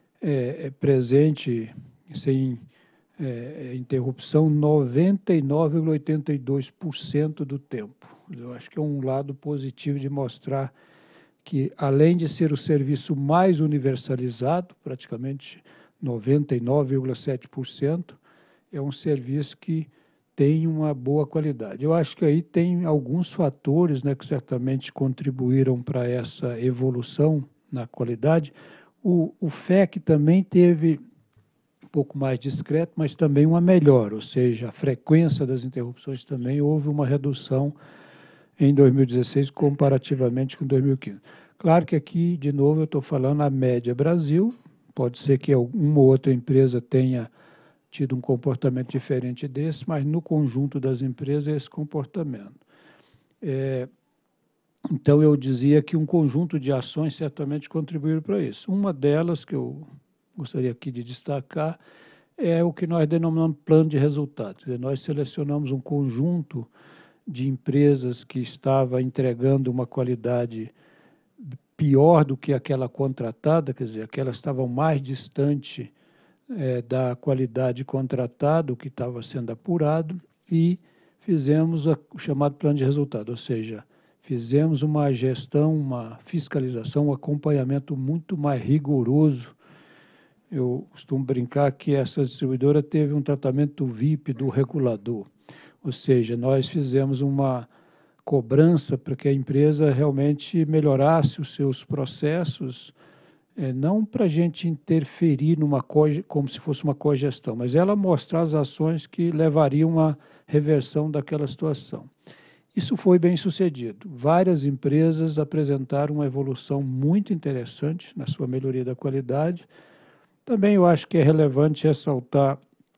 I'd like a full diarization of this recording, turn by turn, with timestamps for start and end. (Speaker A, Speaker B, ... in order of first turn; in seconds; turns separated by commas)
Speaker A: 0.2-2.6, Speaker A: 3.2-10.7, Speaker A: 11.4-18.2, Speaker A: 18.7-31.0, Speaker A: 31.9-37.8, Speaker A: 38.6-47.3, Speaker A: 47.9-52.6, Speaker A: 53.4-53.9, Speaker A: 54.9-61.8, Speaker A: 62.4-66.7, Speaker A: 67.3-70.7, Speaker A: 71.8-75.9, Speaker A: 76.5-89.6, Speaker A: 90.5-95.3, Speaker A: 95.8-97.7, Speaker A: 98.2-102.9, Speaker A: 103.6-112.1, Speaker A: 112.7-119.7, Speaker A: 120.5-122.6